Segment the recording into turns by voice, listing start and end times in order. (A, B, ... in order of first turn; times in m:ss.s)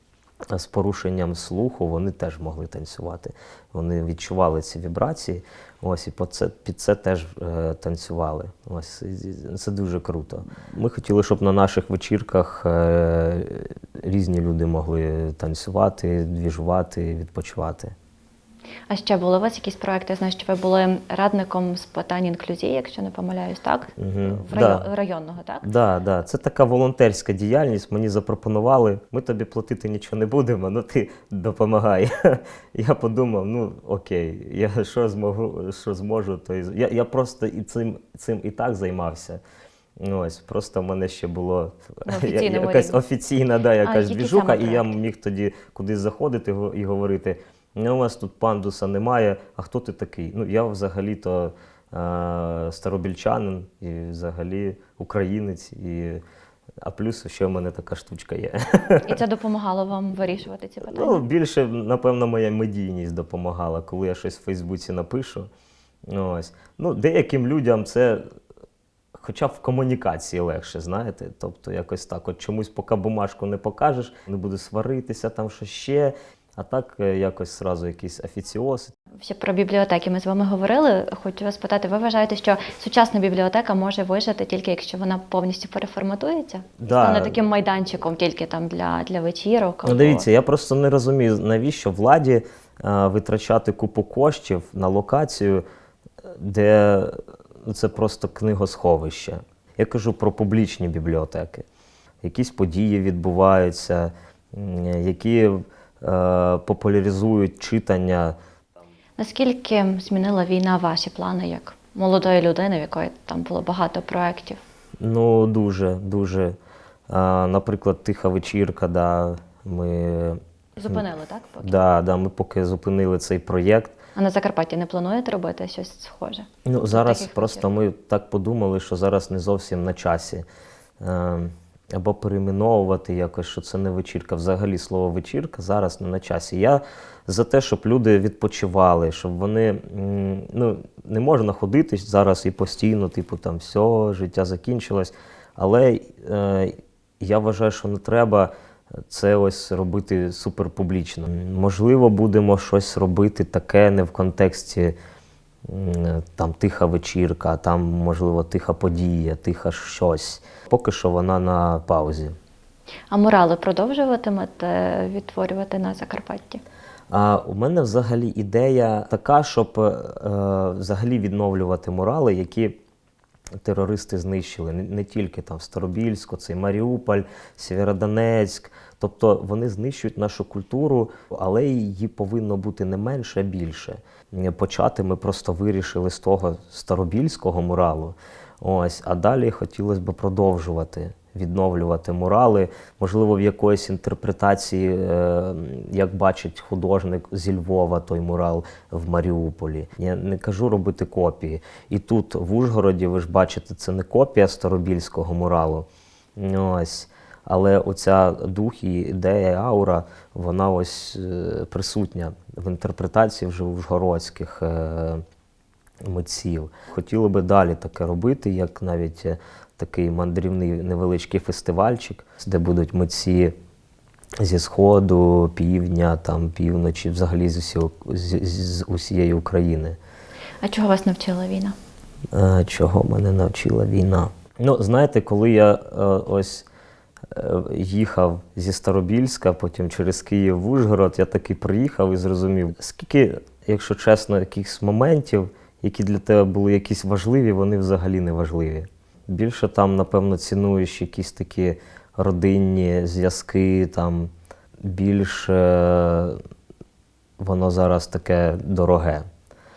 0:00.5-0:17.9 A
0:18.9-0:25.7 B
0:24.0-0:24.9 A
0:25.6-0:39.4 A
0:40.0-0:56.2 A
0:42.0-0:43.0 B
0:43.8-0:44.9 B
0:56.8-0:59.2 A
0:59.0-1:01.2 B
1:00.8-1:05.5 A
1:06.0-1:08.2 A
1:09.1-1:18.9 A
1:19.2-1:30.3 B
1:26.8-1:27.4 A
1:29.8-1:35.6 A
1:36.2-1:41.6 A
1:42.2-1:48.4 A
1:49.2-1:54.6 B
1:55.0-1:56.6 A
1:57.1-2:01.0 A
2:00.8-2:01.7 B
2:01.6-2:04.0 A
2:04.1-2:07.7 B
2:06.6-2:10.4 A
2:11.0-2:35.0 A
2:35.6-2:42.4 A
2:43.1-2:46.6 B
2:47.1-2:52.8 A
2:53.6-3:35.2 A
3:36.0-3:43.5 A
3:44.4-3:50.0 A
3:50.6-3:51.8 B
3:52.3-3:56.7 A
3:57.3-4:16.4 A
4:17.4-4:19.2 A